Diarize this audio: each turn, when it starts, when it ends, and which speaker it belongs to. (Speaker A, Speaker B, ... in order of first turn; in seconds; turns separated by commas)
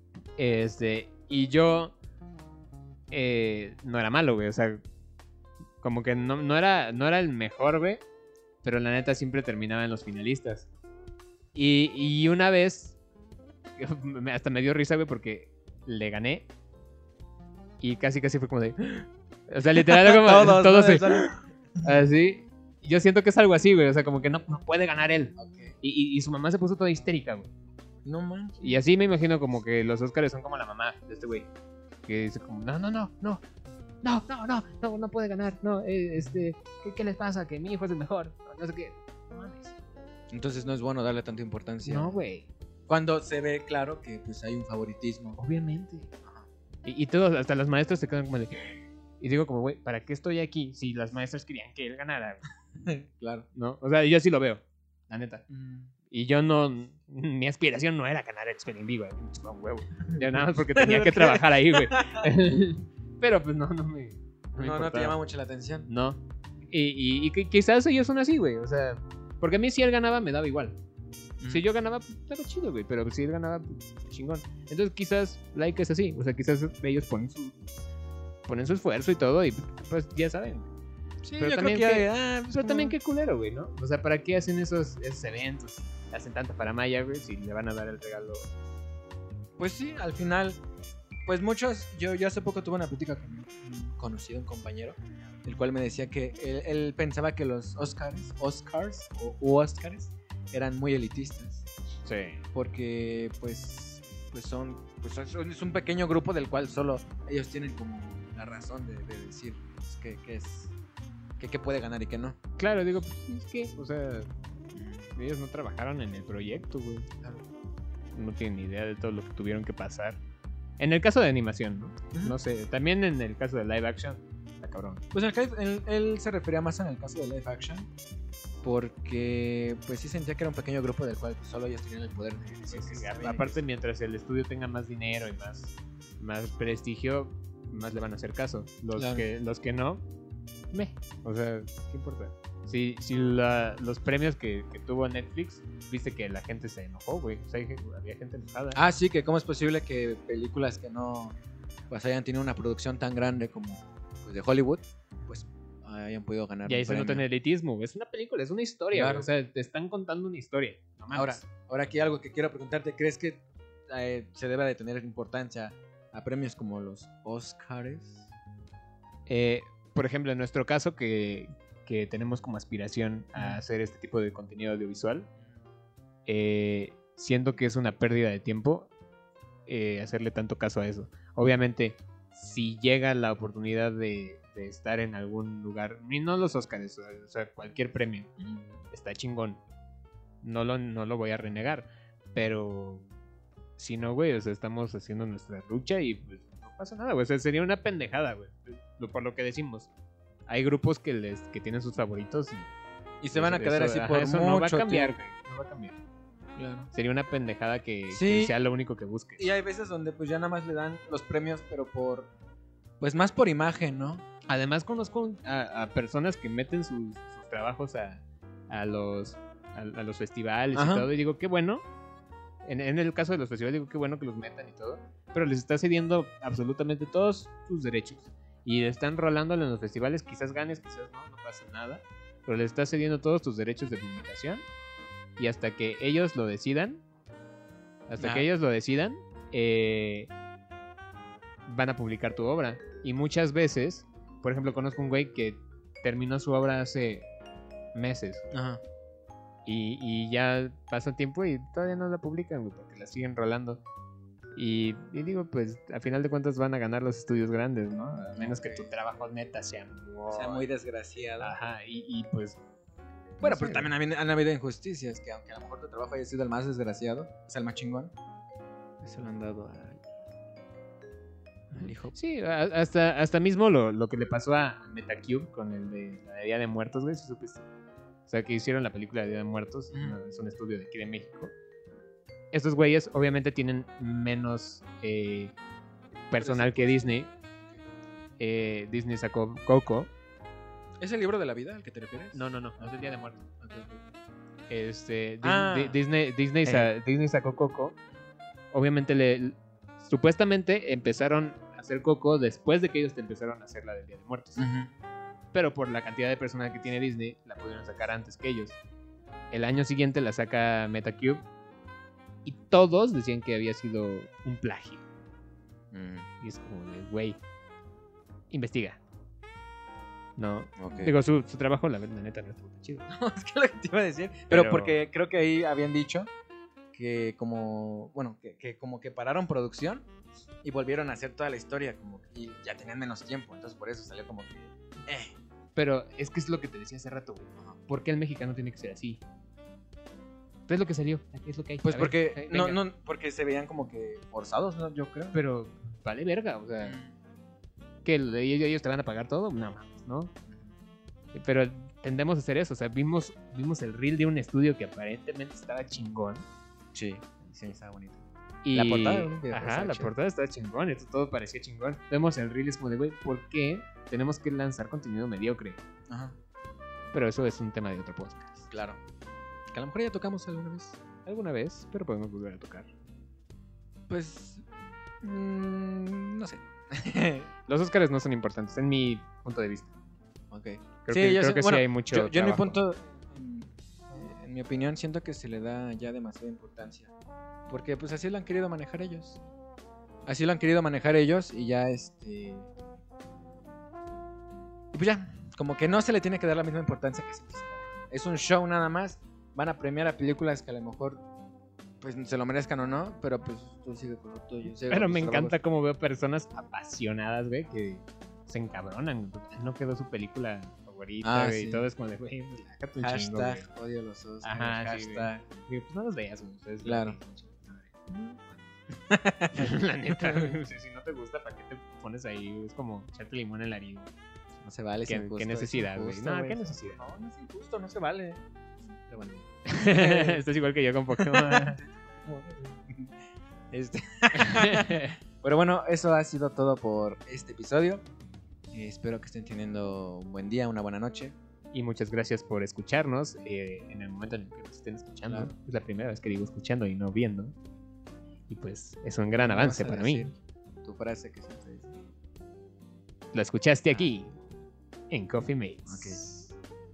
Speaker A: 0.4-1.9, Speaker A: 3.1-4.8, Speaker A: 5.8-8.0, Speaker A: 8.6-10.7, Speaker A: 11.6-13.0, Speaker A: 13.8-16.5, Speaker A: 17.8-27.5, Speaker B: 19.8-21.4, Speaker B: 25.4-25.8, Speaker B: 28.1-28.8, Speaker A: 28.6-31.5, Speaker A: 32.1-33.4, Speaker A: 34.0-39.7, Speaker B: 40.3-42.2, Speaker A: 41.8-42.5, Speaker B: 42.9-45.4, Speaker A: 45.4-46.1, Speaker A: 46.8-52.4, Speaker B: 52.8-53.5, Speaker A: 53.5-55.4, Speaker B: 55.5-55.9, Speaker A: 56.1-65.2, Speaker B: 60.8-62.4, Speaker B: 64.6-65.9, Speaker A: 65.9-70.8, Speaker A: 71.5-77.6, Speaker A: 78.5-80.7, Speaker B: 81.2-83.0, Speaker A: 81.4-88.5, Speaker B: 89.6-90.6, Speaker B: 91.3-101.7, Speaker A: 102.1-102.4, Speaker B: 102.5-110.7, Speaker B: 111.4-112.4, Speaker A: 112.6-114.3, Speaker B: 114.7-115.1, Speaker A: 115.2-117.1, Speaker A: 118.1-120.2, Speaker A: 120.8-125.0, Speaker B: 125.1-127.9, Speaker B: 128.6-133.6, Speaker A: 132.7-140.0, Speaker B: 138.9-139.3, Speaker A: 140.7-148.8, Speaker B: 148.8-151.4, Speaker B: 151.9-157.3, Speaker A: 156.7-161.4, Speaker B: 158.9-159.3, Speaker B: 161.1-168.3, Speaker A: 169.3-175.3, Speaker B: 173.4-173.6, Speaker A: 176.3-178.9, Speaker A: 179.7-188.3, Speaker B: 188.4-188.7, Speaker A: 188.9-189.6, Speaker A: 190.4-193.1, Speaker A: 193.8-199.9, Speaker A: 200.5-202.7, Speaker B: 203.2-205.2, Speaker A: 203.3-206.0, Speaker B: 206.6-206.9, Speaker A: 206.9-209.5, Speaker B: 208.1-208.5, Speaker B: 209.4-212.3, Speaker B: 213.0-214.2, Speaker A: 214.5-221.8, Speaker B: 220.7-221.1, Speaker A: 222.6-234.7, Speaker A: 235.4-237.0, Speaker A: 238.1-240.3, Speaker B: 238.2-238.5, Speaker A: 241.7-247.3, Speaker A: 247.9-248.5, Speaker B: 248.5-248.8, Speaker A: 249.7-253.8, Speaker A: 254.6-260.6, Speaker B: 258.3-258.9, Speaker B: 260.3-261.6, Speaker A: 261.4-262.6, Speaker B: 263.4-268.1, Speaker A: 263.4-263.9, Speaker B: 269.0-270.0, Speaker B: 271.7-272.1, Speaker A: 271.7-277.6, Speaker A: 278.3-281.5, Speaker B: 279.9-280.2, Speaker A: 282.5-285.6, Speaker A: 286.3-287.3, Speaker B: 286.4-287.9, Speaker A: 288.4-290.1, Speaker B: 291.0-292.9, Speaker A: 292.3-293.4, Speaker B: 293.6-294.0, Speaker A: 294.7-298.0, Speaker B: 295.4-296.0, Speaker B: 296.6-296.9, Speaker A: 298.7-304.6, Speaker B: 304.6-304.9, Speaker A: 305.5-308.8, Speaker A: 309.5-311.4, Speaker A: 312.4-315.0, Speaker B: 315.9-316.3, Speaker A: 316.4-317.4, Speaker A: 318.5-319.0, Speaker A: 320.4-323.1, Speaker B: 320.8-321.1, Speaker B: 323.1-326.3, Speaker A: 324.5-325.0, Speaker B: 326.9-330.1, Speaker B: 330.6-335.4, Speaker A: 335.8-339.2, Speaker A: 340.7-342.8, Speaker B: 341.8-345.4, Speaker A: 345.3-347.0, Speaker B: 346.8-347.1, Speaker A: 348.1-350.3, Speaker B: 350.5-350.7, Speaker A: 351.3-356.5, Speaker B: 356.9-358.2, Speaker A: 358.6-365.8, Speaker B: 358.7-360.1, Speaker B: 366.1-366.4, Speaker A: 367.1-368.7, Speaker B: 368.7-369.0, Speaker B: 369.7-371.0, Speaker A: 371.2-372.9, Speaker B: 374.1-374.7, Speaker B: 375.2-377.5, Speaker A: 377.7-379.9, Speaker B: 380.5-387.1, Speaker A: 381.1-382.8, Speaker B: 387.7-389.4, Speaker B: 390.3-392.7, Speaker B: 394.9-401.2, Speaker B: 402.0-405.6, Speaker A: 404.9-413.7, Speaker B: 411.2-411.9, Speaker B: 413.0-415.6, Speaker A: 414.4-418.7, Speaker B: 416.8-417.2, Speaker B: 419.1-420.5, Speaker A: 419.5-424.1, Speaker B: 424.6-430.4, Speaker A: 425.1-427.0, Speaker A: 429.7-431.8, Speaker B: 431.2-433.1, Speaker B: 433.7-438.0, Speaker A: 434.3-435.1, Speaker B: 438.7-441.4, Speaker A: 441.7-447.5, Speaker B: 445.3-445.5, Speaker A: 448.5-450.3, Speaker B: 449.3-452.0, Speaker A: 453.3-454.4, Speaker A: 455.1-456.2, Speaker B: 455.9-456.5